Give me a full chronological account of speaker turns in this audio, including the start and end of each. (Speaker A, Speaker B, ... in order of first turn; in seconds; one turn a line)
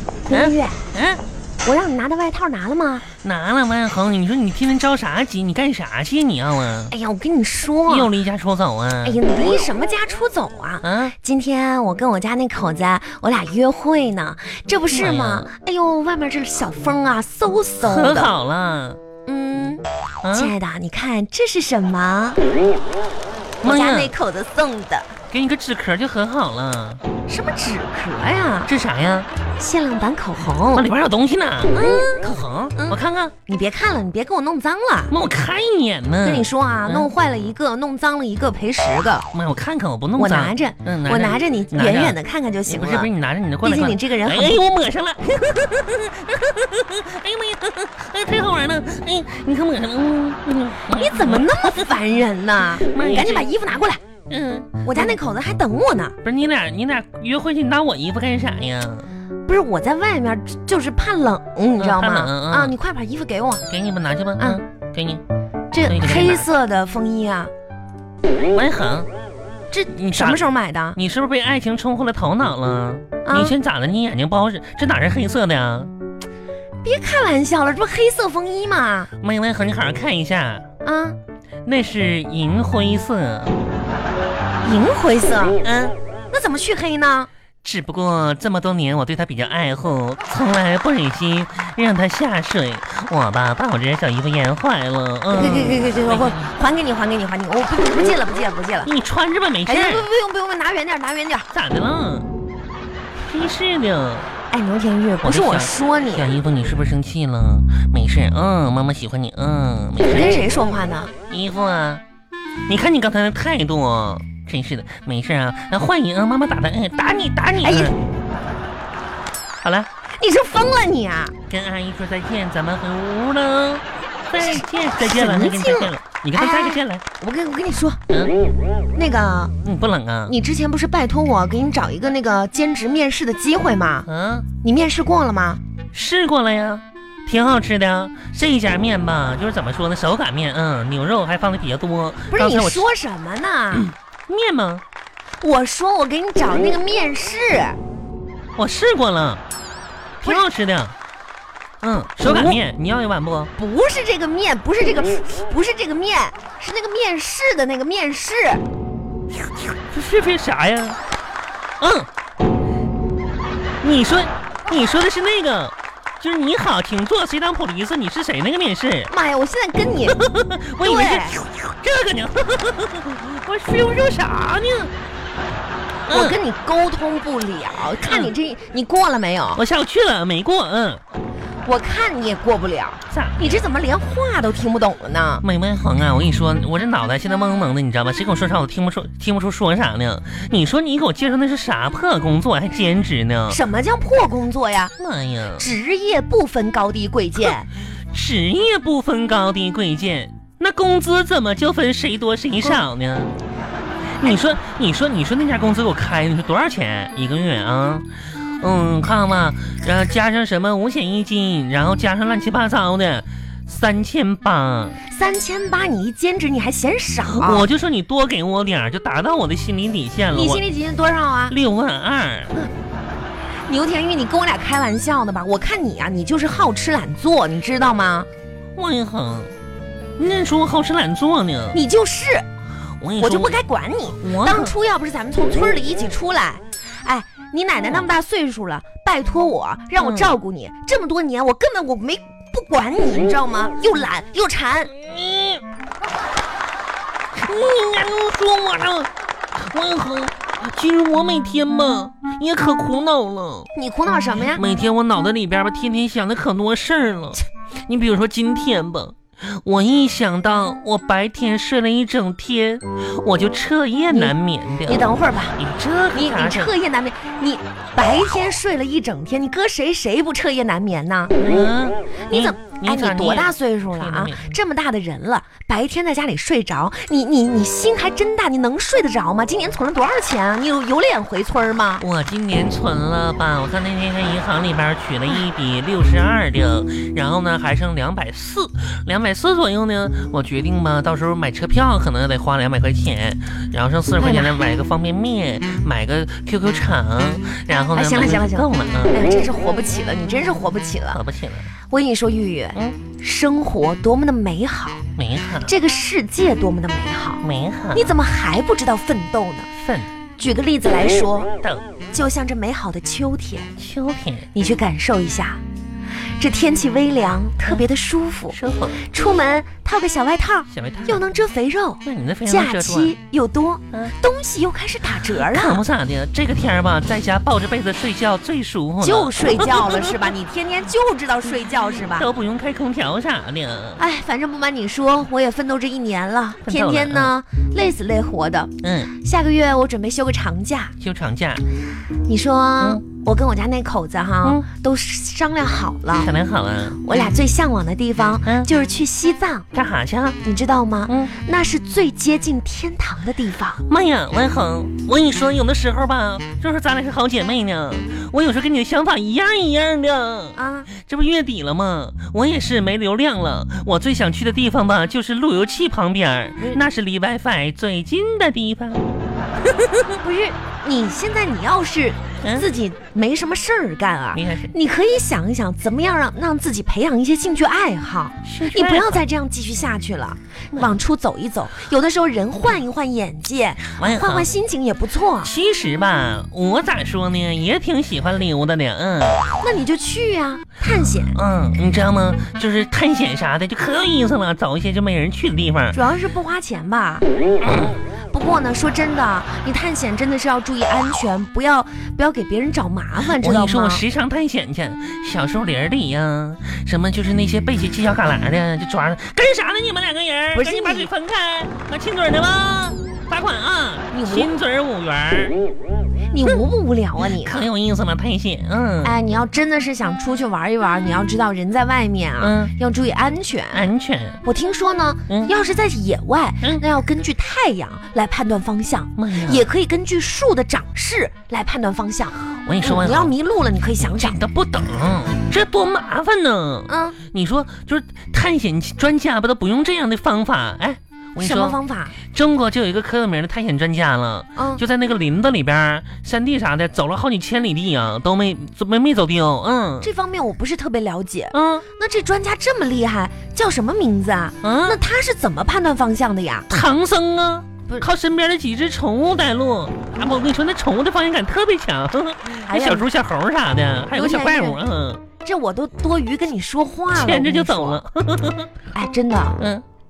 Speaker A: 0.3-0.8
Speaker B: 0.3-1.2
Speaker A: 1.6-3.0
Speaker B: 3.2-6.9
Speaker A: 6.9-8.1
Speaker B: 7.9-9.2
Speaker A: 9.0-18.3
Speaker B: 10.8-11.1
Speaker B: 14.9-15.5
Speaker B: 17.8-19.0
Speaker A: 19.2-22.4
Speaker B: 20.2-20.5
Speaker A: 23.6-25.1
Speaker B: 23.6-24.1
Speaker B: 25.3-27.0
Speaker A: 27.3-28.7
Speaker B: 28.6-29.3
Speaker A: 29.6-30.9
Speaker B: 30.7-33.3
Speaker A: 31.7-32.2
Speaker A: 32.8-35.1
Speaker B: 35.1-37.1
Speaker A: 36.2-39.3
Speaker B: 39.3-51.8
Speaker A: 40.2-43.1
Speaker A: 43.6-44.6
Speaker A: 50.9-54.0
Speaker B: 52.9-53.5
Speaker B: 54.3-55.1
Speaker A: 54.8-56.1
Speaker B: 56.2-59.1
Speaker A: 59.5-63.6
Speaker B: 61.8-62.7
Speaker B: 63.7-65.2
Speaker A: 65.7-67.5
Speaker B: 65.8-66.5
Speaker B: 68.5-69.1
Speaker A: 69.7-71.0
Speaker B: 69.9-70.4
Speaker B: 70.9-75.9
Speaker A: 73.2-73.5
Speaker A: 76.8-79.1
Speaker B: 79.2-80.7
Speaker A: 80.8-81.2
Speaker B: 81.6-83.6
Speaker A: 84.6-85.6
Speaker B: 85.6-86.0
Speaker A: 86.3-87.3
Speaker B: 87.6-96.5
Speaker A: 95.3-98.9
Speaker B: 98.8-100.1
Speaker A: 99.6-101.5
Speaker B: 101.5-102.3
Speaker B: 103.2-104.3
Speaker A: 104.5-106.3
Speaker B: 105.2-110.5
Speaker A: 110.0-111.1
Speaker B: 111.3-112.0
Speaker B: 112.7-117.9
Speaker A: 117.6-117.9
Speaker B: 119.6-119.9
Speaker A: 120.1-121.3
Speaker B: 121.5-127.0
Speaker A: 124.4-128.0
Speaker B: 128.1-128.4
Speaker A: 128.9-129.5
Speaker B: 129.6-130.3
Speaker A: 130.3-134.1
Speaker B: 134.1-134.5
Speaker A: 134.6-135.6
Speaker B: 135.9-142.9
Speaker A: 142.3-143.9
Speaker B: 143.7-144.8
Speaker A: 145.4-147.8
Speaker B: 148.6-149.4
Speaker B: 150.2-150.9
Speaker B: 151.8-153.5
Speaker A: 152.2-152.6
Speaker A: 153.6-158.6
Speaker B: 159.9-161.0
Speaker B: 161.8-162.1
Speaker B: 163.8-169.1
Speaker A: 169.1-170.2
Speaker B: 170.1-174.9
Speaker A: 170.8-171.4
Speaker B: 176.1-176.4
Speaker A: 176.1-179.6
Speaker B: 178.0-178.3
Speaker B: 179.5-181.0
Speaker A: 181.6-185.4
Speaker B: 183.1-183.6
Speaker B: 185.4-193.6
Speaker A: 193.5-194.9
Speaker B: 195.0-195.7
Speaker A: 195.6-197.7
Speaker B: 198.1-203.3
Speaker B: 204.2-208.1
Speaker B: 208.6-215.0
Speaker A: 215.1-217.7
Speaker B: 217.2-220.6
Speaker A: 220.3-221.6
Speaker B: 221.5-222.5
Speaker A: 223.7-228.3
Speaker B: 228.8-229.5
Speaker B: 230.2-231.8
Speaker A: 231.7-232.4
Speaker B: 233.0-233.6
Speaker A: 233.2-244.9
Speaker B: 234.2-234.7
Speaker B: 240.0-240.3
Speaker B: 245.0-245.6
Speaker B: 247.3-253.7
Speaker A: 253.7-254.6
Speaker B: 254.5-265.0
Speaker A: 264.9-265.6
Speaker B: 265.6-266.7
Speaker A: 266.1-271.7
Speaker B: 271.4-274.6
Speaker A: 272.3-282.0
Speaker B: 282.0-299.2
Speaker A: 294.2-294.6
Speaker A: 297.9-301.2
Speaker B: 301.1-301.7
Speaker A: 301.9-305.0
Speaker B: 305.1-305.7
Speaker A: 305.6-309.7
Speaker B: 307.4-308.1
Speaker B: 309.7-310.1
Speaker A: 310.4-311.5
Speaker B: 311.6-311.9
Speaker A: 312.1-313.7
Speaker B: 313.8-314.5
Speaker A: 314.5-315.6
Speaker A: 316.4-325.8
Speaker B: 318.5-319.0
Speaker B: 320.7-321.2
Speaker B: 322.0-323.1
Speaker B: 325.3-330.3
Speaker A: 329.0-332.3
Speaker B: 331.9-334.0
Speaker A: 334.0-340.9
Speaker B: 336.6-337.3
Speaker B: 338.8-339.1
Speaker B: 341.0-341.6
Speaker A: 342.3-346.3
Speaker B: 346.1-347.0
Speaker A: 347.0-349.7
Speaker B: 349.7-350.4
Speaker A: 350.4-353.8
Speaker B: 353.9-369.1
Speaker A: 360.6-360.9
Speaker A: 370.2-385.5
Speaker B: 372.4-372.7
Speaker B: 374.3-374.7
Speaker B: 378.4-379.2
Speaker B: 383.9-384.5
Speaker B: 385.4-389.5
Speaker A: 389.5-391.4
Speaker B: 391.3-396.0
Speaker A: 395.9-397.2
Speaker B: 397.6-398.0
Speaker A: 398.3-404.0
Speaker B: 403.2-415.6
Speaker A: 410.5-411.1
Speaker A: 414.1-414.5
Speaker A: 416.3-417.7
Speaker B: 417.2-419.1
Speaker A: 419.0-423.9
Speaker B: 422.4-422.7
Speaker B: 423.7-424.4
Speaker A: 424.4-434.4
Speaker B: 429.2-429.6
Speaker B: 432.6-433.3
Speaker B: 434.0-441.8
Speaker A: 436.9-437.2
Speaker A: 441.4-442.1
Speaker B: 442.3-450.1
Speaker A: 444.6-444.8
Speaker A: 450.0-456.8
Speaker B: 451.5-451.8
Speaker B: 454.6-455.0
Speaker B: 456.7-465.2
Speaker A: 462.6-463.1
Speaker A: 464.1-464.8
Speaker A: 465.4-468.0
Speaker B: 467.1-468.7
Speaker A: 468.9-469.6
Speaker B: 469.6-469.8